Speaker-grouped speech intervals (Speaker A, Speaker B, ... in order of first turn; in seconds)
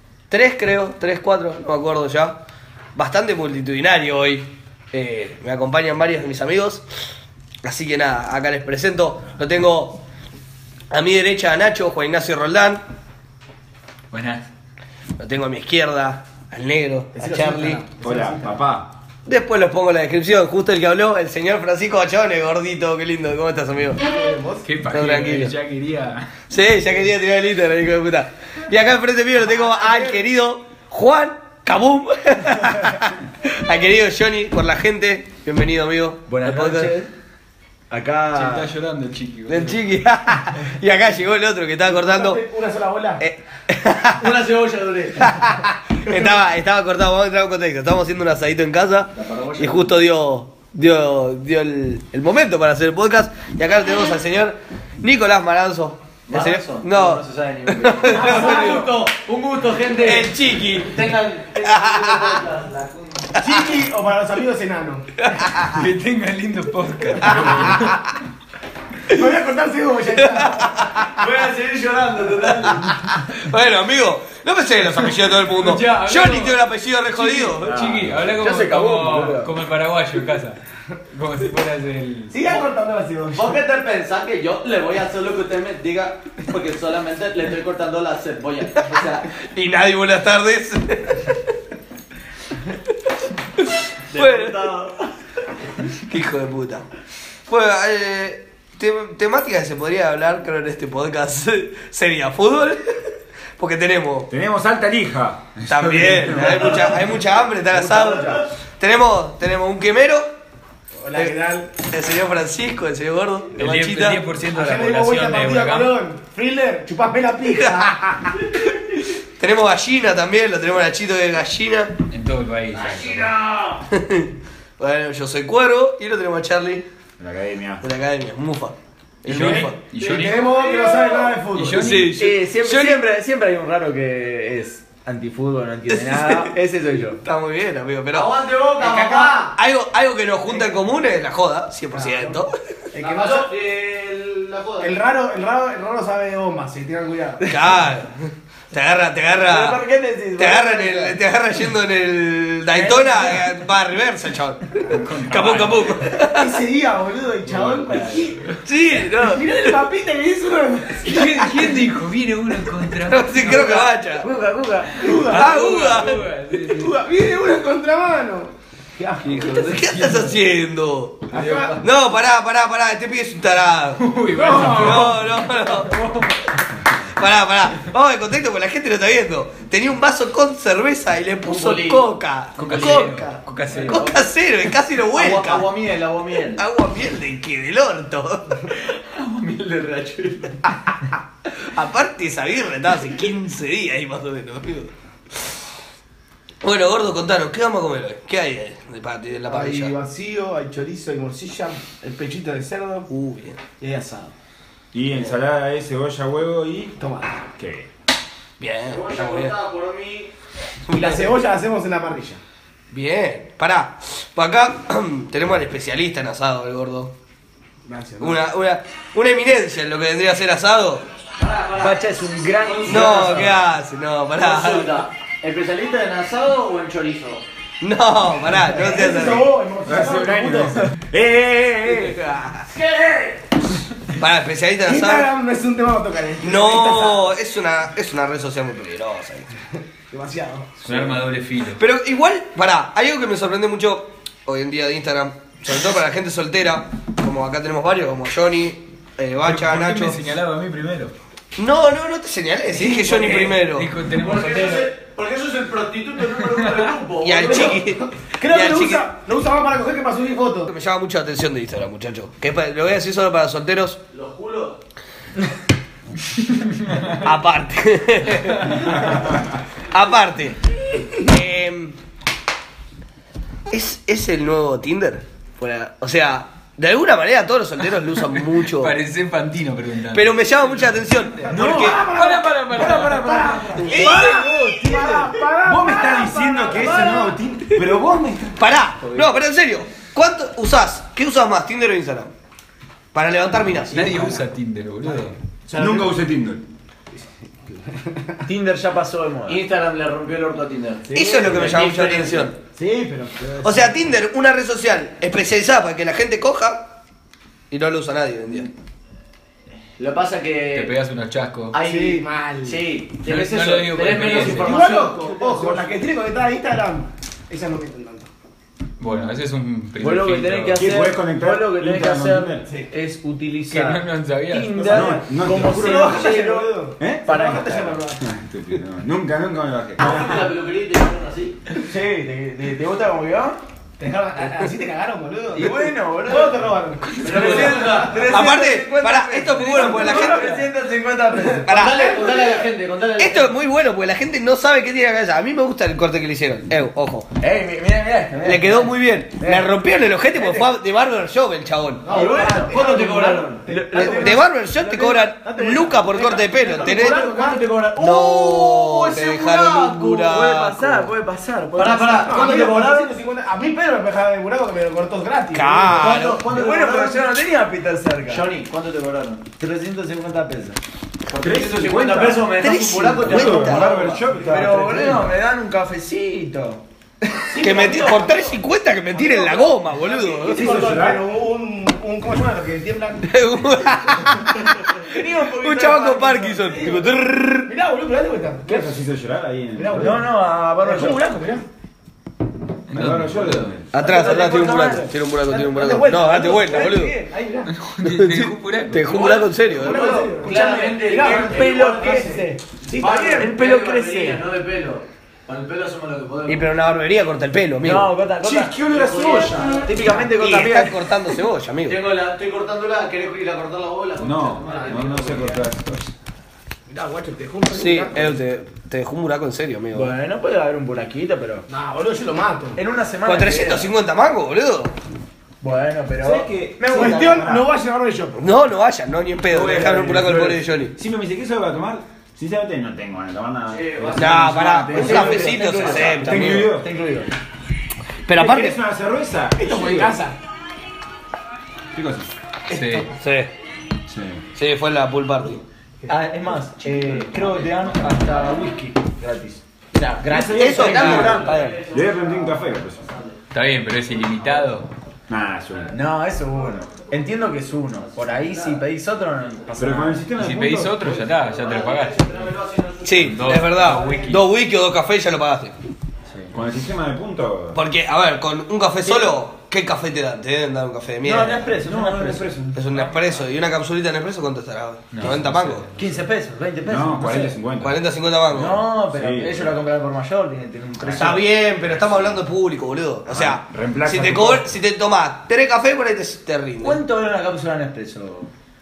Speaker A: 0.3-2.4, 3.0-6.8, 7.6-10.0, 10.9-12.8, 15.2-17.8, 19.3-24.0, 24.9-25.6, 26.5-37.0, 39.5-42.4, 43.2-44.4, 45.2-59.1, 59.9-62.4, 63.4-63.6, 65.2-65.8, 67.2-68.1, 70.2-71.1, 72.4-77.8, 88.8-91.4, 93.6-94.9, 96.0-96.9, 97.5-104.3, 105.7-110.3, 111.2-114.2, 117.4-121.9, 123.9-126.8, 127.8-129.8, 131.7-133.0, 135.9-136.5, 137.2-142.6, 147.4-149.8, 150.4-156.6, 158.7-159.7, 163.1-164.3, 165.3-166.2, 169.2-174.1, 174.7-176.0, 177.1-185.7, 186.4-188.8, 190.7-190.9, 191.6-194.9, 196.6-200.0, 203.1-203.6, 208.6-209.6, 210.8-211.4, 212.9-217.1, 218.2-221.1, 222.8-225.1, 227.8-229.5, 232.0-232.7, 234.1-235.3, 236.4-239.5, 241.8-250.2, 251.6-253.9, 257.2-259.1, 260.7-264.0, 267.1-270.6, 271.2-272.0, 273.7-278.9, 280.1-282.1, 283.8-284.3, 288.6-292.3, 293.1-294.1, 301.1-302.6, 303.6-306.9, 307.7-308.7, 338.1-340.7, 341.7-342.7, 343.2-347.3, 348.4-352.1, 354.0-357.3, 358.0-361.1, 365.5-366.4, 372.5-374.1, 377.6-380.8, 383.2-387.7, 393.9-397.2, 398.0-400.3, 406.5-408.1, 410.4-412.0, 417.7-420.1, 423.2-424.9, 428.4-430.9, 434.2-436.7, 438.3-438.8, 443.2-443.5, 444.6-445.6, 450.5-451.8, 463.0-465.8, 467.7-471.7, 472.7-475.9, 477.8-478.9, 481.2-487.0
Speaker B: 14.1-14.4, 24.6-26.3, 38.3-39.8, 65.6-68.0, 75.5-76.6, 77.2-80.6, 81.1-82.6, 113.5-116.0, 122.1-123.4, 129.3-130.6, 131.5-132.4, 154.9-156.1, 157.6-158.6, 161.0-163.9, 164.9-166.9, 169.2-170.3, 171.3-171.8, 174.0-176.6, 182.6-184.1, 189.2-189.5, 240.8-241.8, 249.4-251.1, 253.6-254.9, 256.2-257.0, 266.3-267.3, 268.3-269.1, 278.5-284.8, 293.9-295.4, 310.7-311.8, 313.2-314.9, 319.0-320.9, 323.7-325.1, 392.9-393.8, 397.7-399.5, 442.7-443.1, 453.5-454.9, 460.3-462.5, 463.2-464.4, 472.9-473.3, 475.1-476.3
Speaker C: 17.2-18.3, 24.0-24.7, 29.4-30.2, 41.8-43.2, 46.1-46.4, 63.4-65.1, 69.1-71.2, 82.3-83.6, 111.0-111.7, 114.5-118.4, 129.3-131.8, 140.5-140.8, 141.9-142.4, 142.9-143.6, 144.8-147.6, 156.2-158.6, 159.1-161.8, 165.0-165.9, 166.6-169.8, 171.3-171.8, 174.3-175.2, 199.5-203.1, 207.0-207.4, 210.9-212.4, 217.8-218.5, 228.6-230.9, 234.8-237.3, 240.1-240.9, 257.3-260.7, 281.4-287.4, 293.9-294.4, 295.7-296.1, 297.1-298.4, 302.8-304.0, 311.8-313.0, 314.2-318.3, 325.5-328.2, 334.0-338.4, 339.7-340.5, 352.1-354.4, 356.7-357.6, 362.2-366.3, 377.5-384.4, 387.7-389.0, 389.8-391.6, 394.0-394.9, 395.5-397.7, 399.6-403.5, 414.7-415.0, 416.9-418.4, 421.7-422.8, 426.9-428.4, 439.6-440.4, 442.7-443.0
Speaker D: 18.0-18.9, 77.6-78.5, 104.3-107.0, 127.2-127.8, 204.9-207.0, 207.6-207.9, 229.8-232.2, 282.8-283.6, 285.6-288.7, 295.8-296.6, 320.7-322.7, 324.8-326.4, 327.0-330.5, 371.4-375.4, 380.5-381.3, 388.6-390.3, 392.9-393.9, 408.4-409.5, 414.2-416.1, 426.2-427.7, 429.5-436.9, 438.3-440.2, 441.9-442.3, 444.1-444.4, 450.2-453.1, 455.3-456.0, 459.8-461.2, 466.5-467.8, 471.8-472.9, 476.9-478.0, 478.9-479.9, 481.0-481.4, 482.0-482.3, 483.3-484.8
Speaker E: 36.3-37.1, 37.9-38.7, 58.0-58.9, 71.2-73.0, 78.4-79.5, 107.7-108.4, 132.2-137.2, 149.4-151.2, 152.7-153.4, 157.5-158.2, 163.4-165.1, 182.6-183.0, 183.7-184.0, 203.8-204.3, 221.8-223.6, 281.5-282.1, 283.9-285.3, 289.0-289.4, 298.4-299.6, 301.4-301.7, 313.6-315.2, 320.0-328.0, 331.8-333.6, 335.5-336.6, 337.2-341.8, 347.4-349.7, 352.1-363.2, 365.9-368.5, 369.5-370.8, 371.8-378.3, 384.9-387.1, 389.9-391.4, 393.9-396.9, 399.8-402.5, 403.3-404.4, 407.8-411.1, 419.9-421.6, 422.8-423.9, 425.6-427.5, 429.6-430.5, 434.5-437.3, 446.1-451.6, 455.9-460.3, 469.0-469.4, 471.2-472.5, 476.0-477.6, 478.5-481.4, 486.8-488.5
Speaker F: 44.2-45.2, 49.1-49.9, 56.3-63.4, 71.2-72.7, 83.3-89.2, 94.1-94.9, 122.7-123.4, 130.0-131.4, 138.1-139.6, 143.0-145.0, 181.4-182.1, 183.7-184.3, 185.1-186.6, 208.9-210.3, 221.4-223.5, 224.4-227.4, 232.7-233.3, 253.0-253.6, 254.2-257.8, 264.1-264.8, 299.5-302.6, 310.0-310.9, 311.7-315.5, 330.0-331.6, 337.2-338.3, 339.9-340.3, 341.6-343.6, 352.1-353.7, 361.8-362.8, 366.0-367.3, 368.3-369.5, 371.3-374.2, 399.9-406.7, 408.7-410.4, 411.9-415.6, 433.7-434.4, 435.0-436.1, 447.2-448.8, 450.8-453.4, 454.1-454.7, 456.7-458.9, 461.0-464.5